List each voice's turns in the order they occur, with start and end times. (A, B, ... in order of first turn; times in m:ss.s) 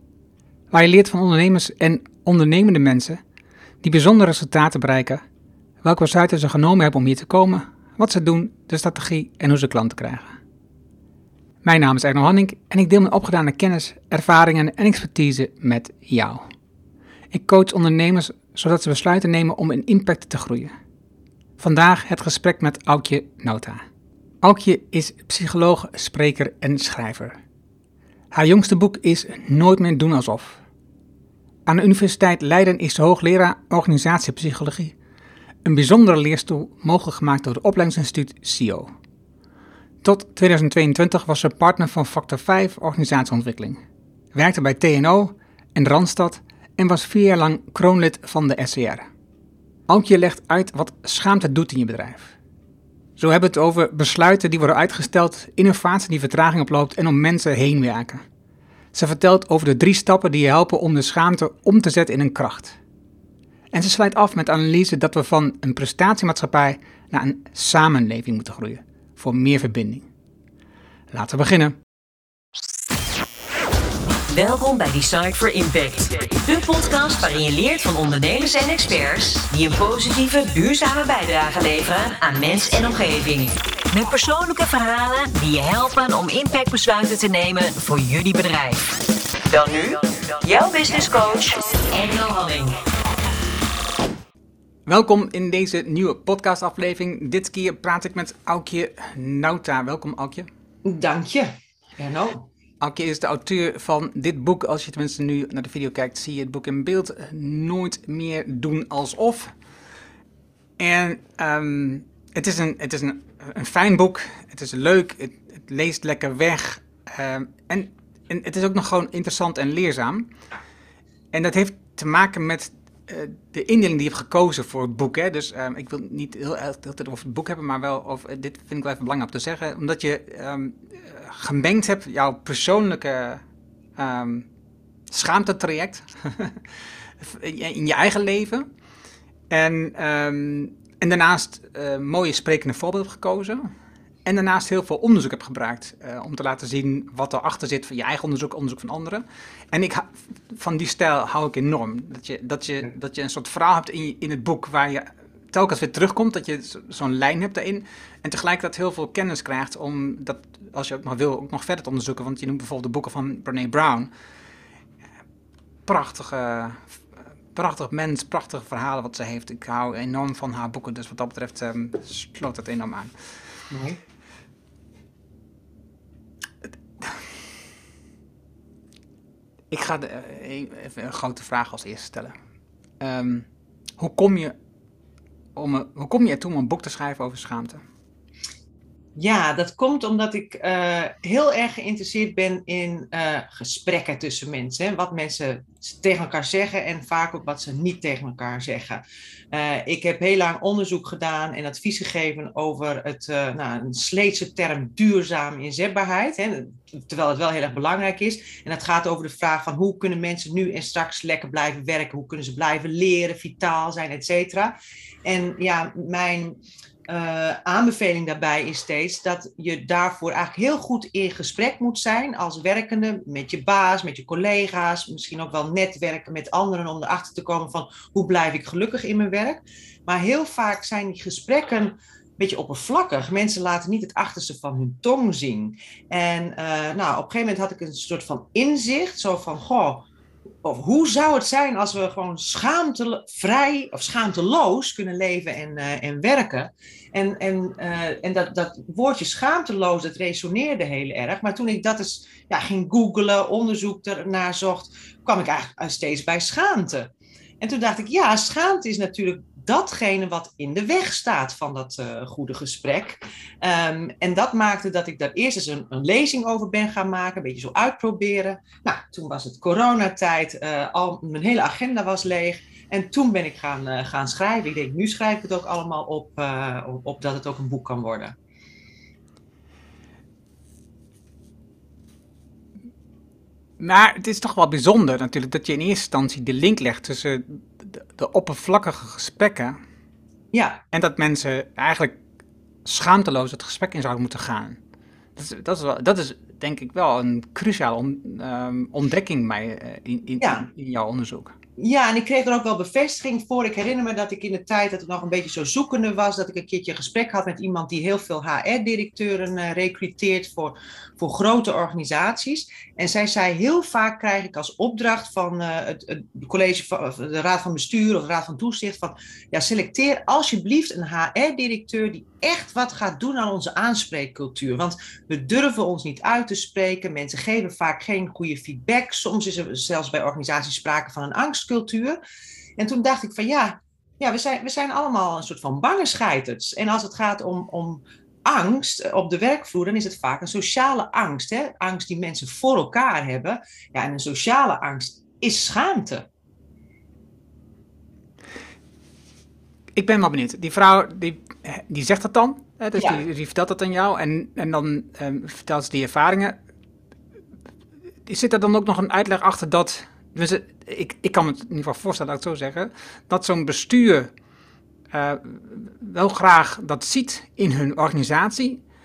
0:00.7-0:03.2 A
0:03.8-0:05.2 A
0:05.8-0:10.4 A
0:11.6-0:16.5 A
0:17.3-0:20.7 A
0:21.6-0:23.8 A
0:24.4-0:27.4 A
0:28.3-0:30.6 A
0:31.7-0:35.0 A
0:35.6-0:38.9 A
0:40.0-0:43.8 A
0:44.3-0:49.1 A
0:49.9-0:52.3 A
0:53.2-0:58.2 A
0:58.9-1:02.8 A
1:03.7-1:10.1 A
1:11.1-1:11.8 A
1:14.3-1:28.9 B
1:29.5-1:32.8 B
1:34.9-1:40.5 A
1:40.8-1:42.5 C
1:42.8-1:49.5 A
1:50.8-2:00.3 A
2:01.3-2:13.4 A
2:14.0-2:14.5 A
2:15.1-2:16.6 A
2:17.2-2:18.7 A
2:19.5-2:23.7 A
2:24.2-2:44.1 A
2:45.9-2:47.0 A
2:47.5-2:53.1 A
2:53.7-2:54.0 C
2:59.7-3:02.3 A
3:03.0-3:03.5 A
3:04.0-3:04.6 A
3:05.6-3:07.8 A
3:09.2-4:00.1 C
4:00.6-4:38.4 C
4:43.8-4:49.8 A
4:50.5-4:50.8 C
4:50.9-4:52.2 A
4:52.8-4:54.8 A
4:55.4-5:01.6 A
5:00.4-5:00.7 C
5:01.8-5:32.2 C
5:32.8-5:46.3 C
5:50.0-5:56.6 A
5:53.0-5:53.2 C
5:58.3-6:04.3 A
6:05.1-6:08.8 A